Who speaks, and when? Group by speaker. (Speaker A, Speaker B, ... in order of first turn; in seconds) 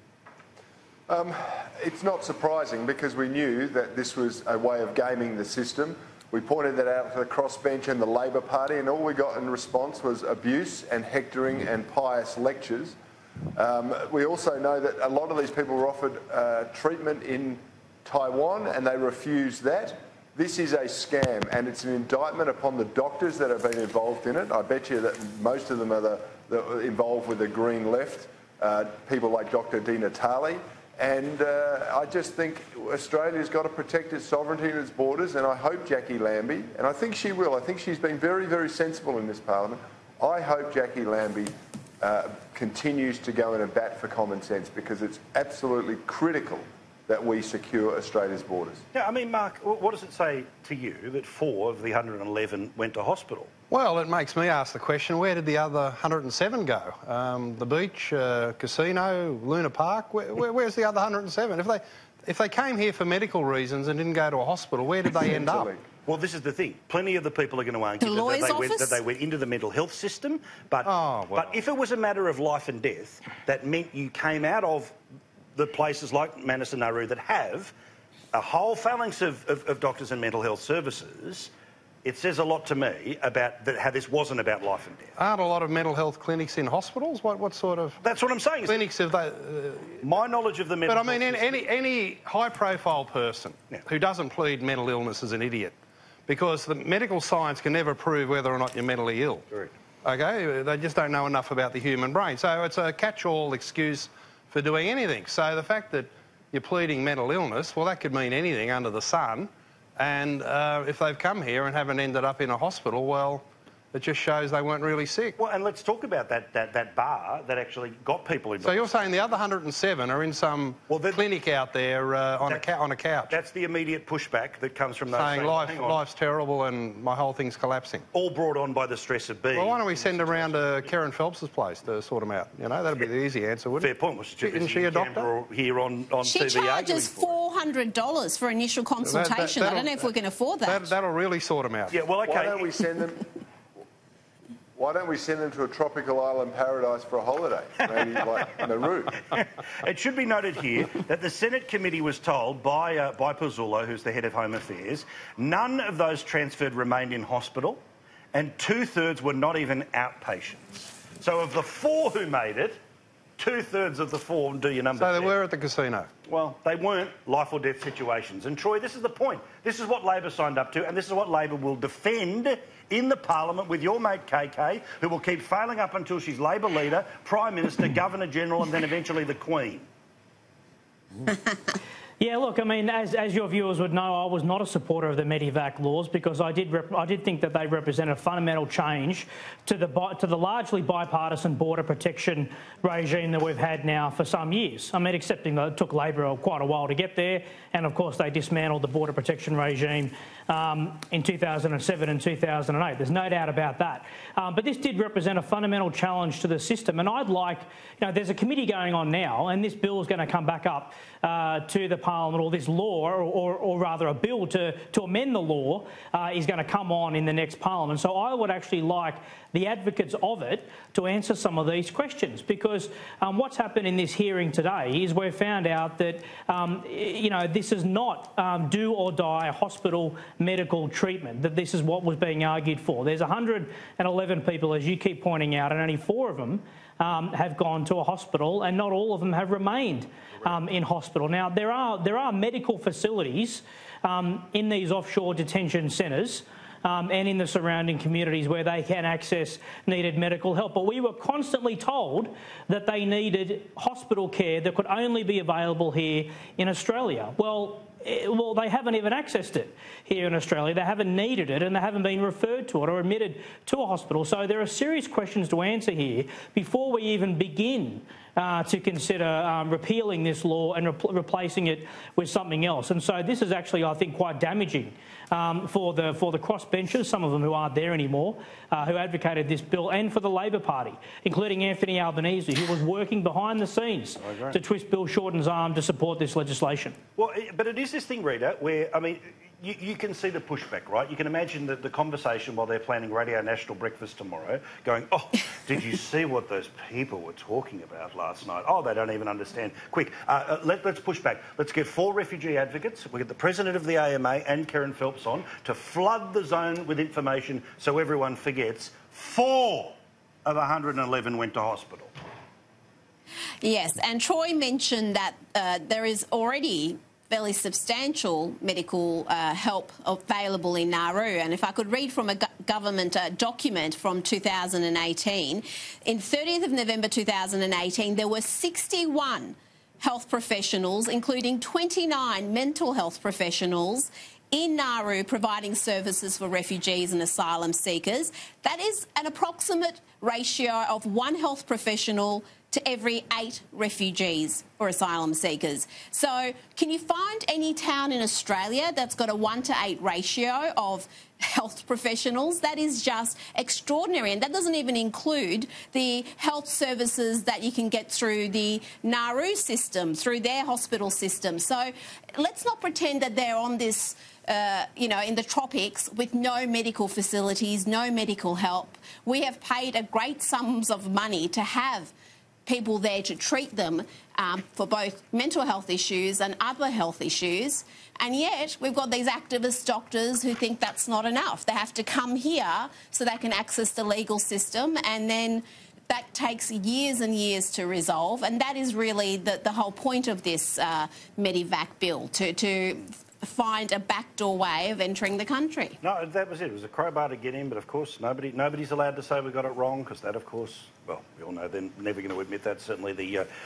Speaker A: 1.1-13.0, 13.6-48.8, 65.3-65.8, 142.3-143.3, 144.8-149.2
Speaker B: 48.9-53.5, 66.1-74.9, 75.5-77.7, 78.3-81.5, 82.0-85.2, 88.0-88.8, 90.0-91.7, 115.4-118.9, 120.9-121.2, 123.3-126.0, 128.1-130.9, 133.8-137.4, 141.9-142.8, 149.3-157.8, 158.3-162.8, 163.4-165.3, 166.3-179.9, 284.2-284.6, 287.2-312.1, 396.0-403.5
Speaker C: 53.7-65.7, 70.8-71.5, 85.2-88.0, 88.7-90.0, 90.9-95.7, 96.3-99.5, 100.0-115.4, 118.6-123.3, 125.1-128.1, 129.5-135.3, 139.0-140.1, 140.7-142.0, 164.9-166.1
Speaker D: 68.0-69.0, 136.2-140.9, 313.6-372.1, 372.7-396.0
Speaker E: 182.2-287.0